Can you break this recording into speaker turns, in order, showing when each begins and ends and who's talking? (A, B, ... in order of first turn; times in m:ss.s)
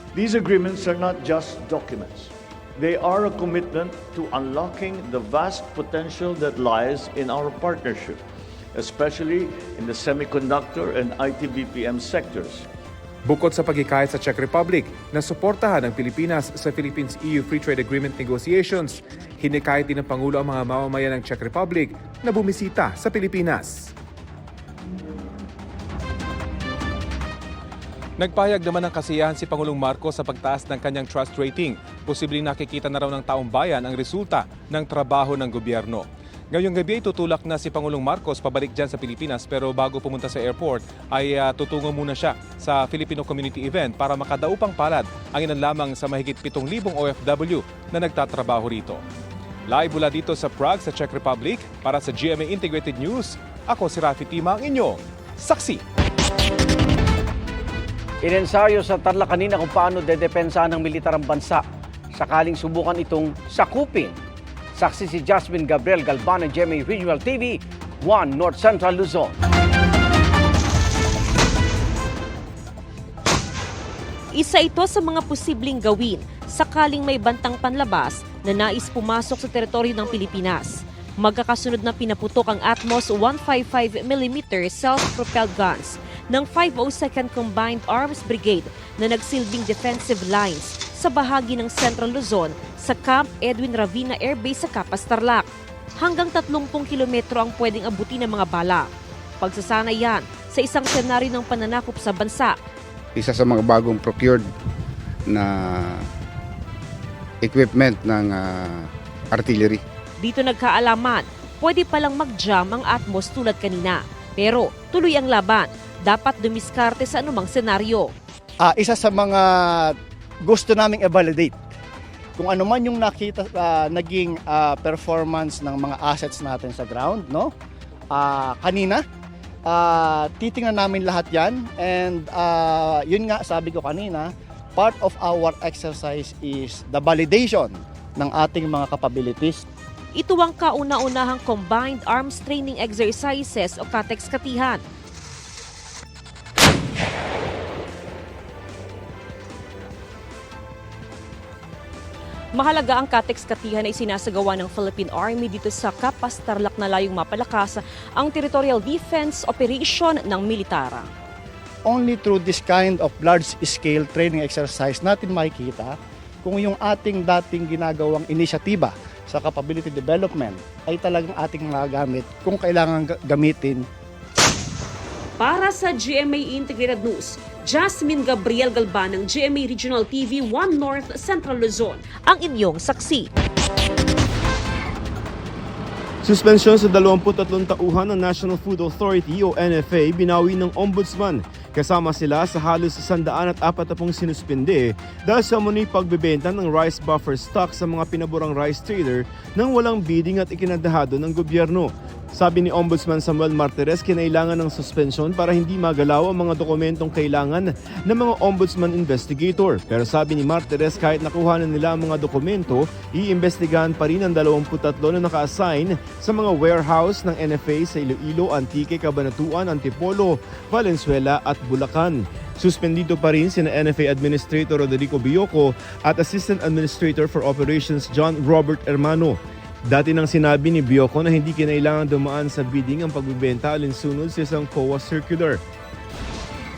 0:00.1-0:08.2 A
0:08.7-0:12.7 A
0:13.2-0:23.9 B
0:28.2-0:49.0 B
0:49.7-0:55.8 B
0:58.2-1:01.6 C
1:02.1-1:04.2 C
1:04.8-1:09.3 C
1:14.3-1:35.5 D
1:36.0-1:38.9 D
1:39.4-1:42.6 D
1:43.2-1:44.4 E
1:45.3-1:46.0 E
1:47.4-1:49.8 E
1:50.2-1:58.1 D
1:58.6-2:01.6 F
2:02.4-2:07.5 F
2:08.1-2:09.0 F
2:09.7-2:19.6 F
2:20.2-2:24.8 D
2:32.5-2:41.0 D
2:41.8-2:53.8 F
2:55.4-3:03.3 D
3:06.2-3:55.6 G